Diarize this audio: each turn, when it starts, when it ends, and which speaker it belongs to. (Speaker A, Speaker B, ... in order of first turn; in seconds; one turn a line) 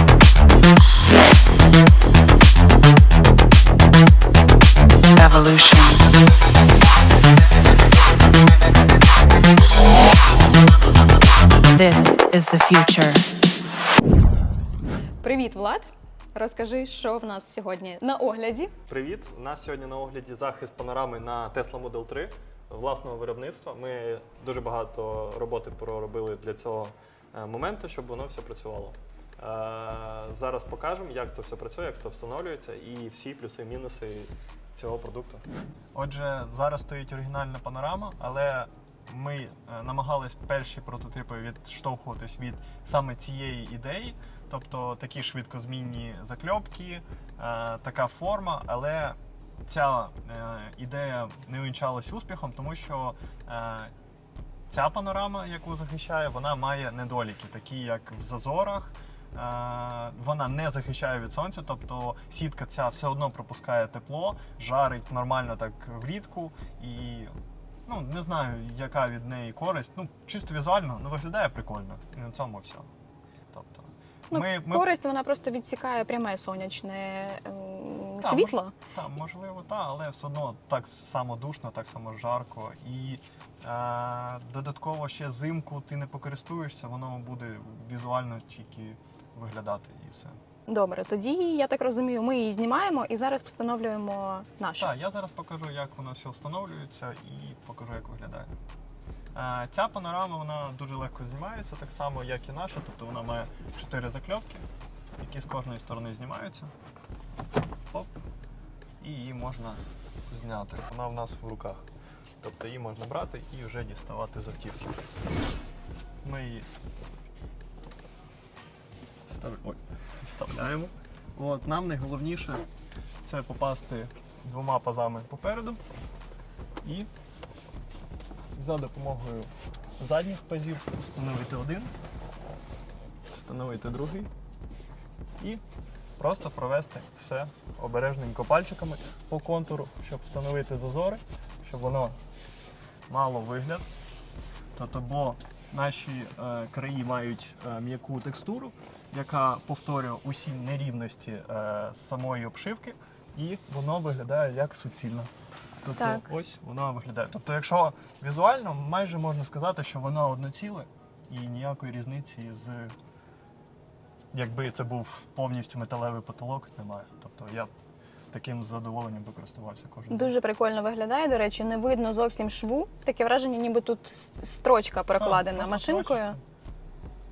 Speaker A: 5.2-6.0
Speaker A: 11.7-13.2
Speaker B: 15.2-18.7
Speaker C: 18.9-53.9
Speaker C: 54.7-67.3
Speaker C: 67.9-72.9
Speaker C: 73.5-74.9
Speaker B: 74.3-78.7
Speaker C: 78.2-90.4
Speaker B: 90.7-94.9
Speaker C: 94.8-98.5
Speaker C: 99.3-104.6
Speaker C: 105.2-106.7
Speaker C: 109.0-111.8
Speaker C: 112.4-115.0
Speaker C: 116.2-116.7
Speaker C: 119.3-122.7
Speaker C: 123.2-125.8
Speaker C: 126.8-127.1
Speaker C: 128.6-131.9
Speaker C: 133.3-134.3
Speaker C: 136.2-142.2
Speaker C: 143.1-143.9
Speaker C: 144.8-155.3
Speaker C: 155.8-162.9
Speaker B: 156.0-156.3
Speaker C: 164.3-167.7
Speaker C: 168.3-170.3
Speaker B: 170.1-176.4
Speaker C: 175.2-176.4